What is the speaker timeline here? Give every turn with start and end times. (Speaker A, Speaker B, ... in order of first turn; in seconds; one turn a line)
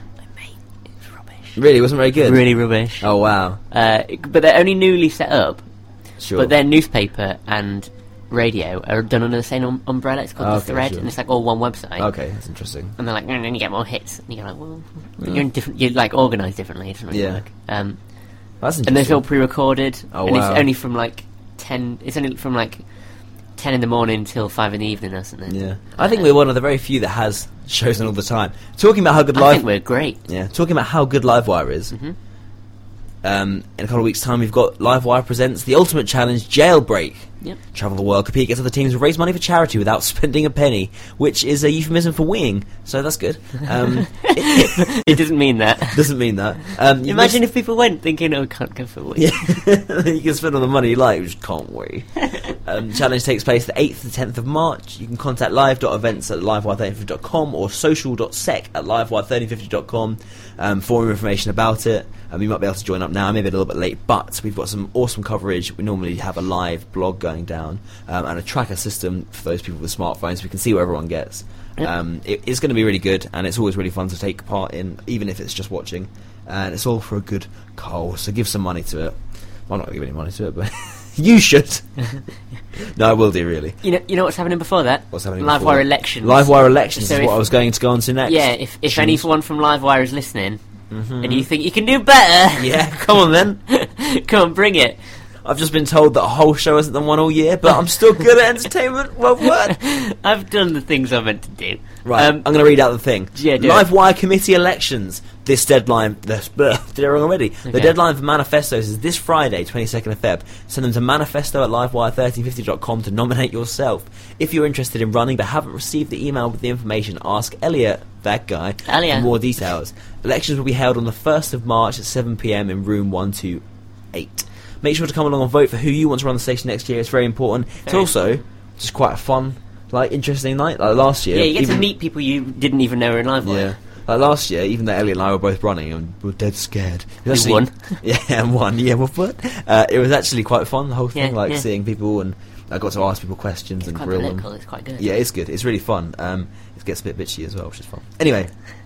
Speaker A: 0.4-1.6
Speaker B: 1.6-2.5
Speaker A: 2.2-3.1
Speaker B: 3.0-3.6
Speaker A: 3.7-5.6
Speaker B: 6.2-6.5
Speaker A: 6.4-12.1
Speaker B: 10.4-11.1
Speaker B: 12.0-13.0
Speaker A: 13.0-18.0
Speaker B: 15.2-15.4
Speaker B: 17.1-17.4
Speaker B: 18.6-19.2
Speaker A: 18.9-22.8
Speaker B: 20.1-20.7
Speaker A: 23.6-26.2
Speaker B: 25.5-29.6
Speaker A: 29.4-30.2
Speaker B: 30.3-31.9
Speaker B: 33.2-45.2
Speaker A: 44.1-46.1
Speaker B: 45.9-47.4
Speaker A: 47.0-49.6
Speaker B: 49.1-79.2
Speaker B: 79.7-82.0
Speaker B: 82.8-83.8
Speaker A: 83.8-87.5
Speaker B: 85.1-89.2
Speaker A: 88.2-90.6
Speaker B: 90.9-91.5
Speaker A: 91.2-92.8
Speaker B: 92.6-93.6
Speaker A: 93.7-95.0
Speaker B: 95.4-99.8
Speaker A: 99.6-102.5
Speaker B: 102.0-131.9
Speaker A: 103.3-103.9
Speaker A: 107.7-107.9
Speaker A: 118.9-119.3
Speaker A: 131.3-133.8
Speaker B: 133.4-148.5
Speaker A: 137.3-138.0
Speaker A: 141.1-141.6
Speaker A: 143.8-145.1